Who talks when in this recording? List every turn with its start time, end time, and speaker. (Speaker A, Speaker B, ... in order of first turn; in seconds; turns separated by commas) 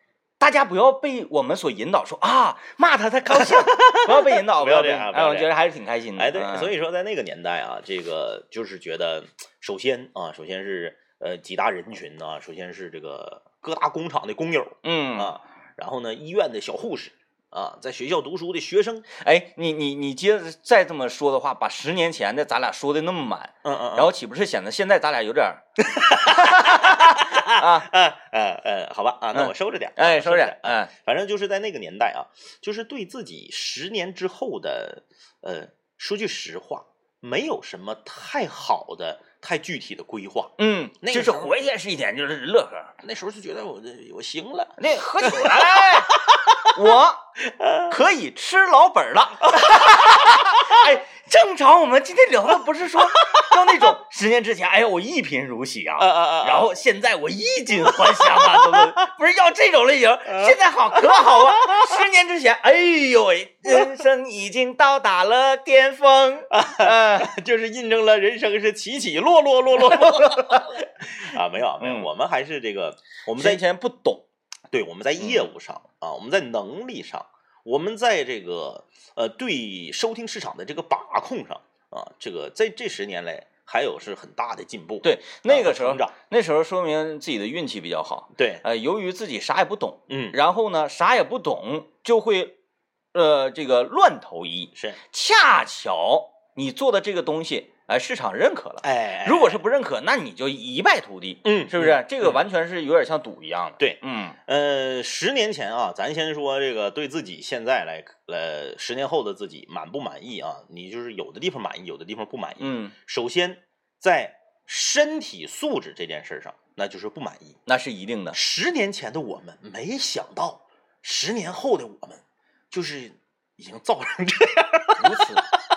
Speaker A: 0.4-6.7, Speaker B: 3.3-5.5, Speaker B: 6.2-19.1, Speaker A: 14.8-15.3, Speaker A: 19.1-27.9, Speaker B: 23.6-24.1, Speaker B: 25.9-41.5, Speaker A: 29.3-30.9, Speaker A: 40.6-43.0, Speaker B: 43.0-46.7, Speaker A: 44.8-46.1, Speaker A: 46.7-47.2, Speaker B: 47.5-48.0, Speaker A: 47.9-67.3, Speaker B: 49.5-50.8, Speaker B: 53.3-53.8, Speaker B: 56.0-56.7, Speaker B: 57.9-58.9, Speaker B: 60.3-62.0, Speaker B: 66.5-73.6, Speaker A: 69.8-70.9, Speaker A: 71.8-72.1, Speaker A: 73.4-74.2, Speaker B: 74.7-86.1, Speaker A: 75.2-75.5, Speaker A: 85.0-92.5, Speaker B: 88.4-88.6, Speaker B: 90.1-90.4, Speaker A: 93.1-104.4, Speaker B: 98.8-99.6, Speaker B: 101.4-102.4, Speaker B: 103.8-117.6, Speaker A: 112.6-112.9, Speaker A: 117.7-118.4, Speaker B: 118.3-125.4, Speaker A: 125.0-125.4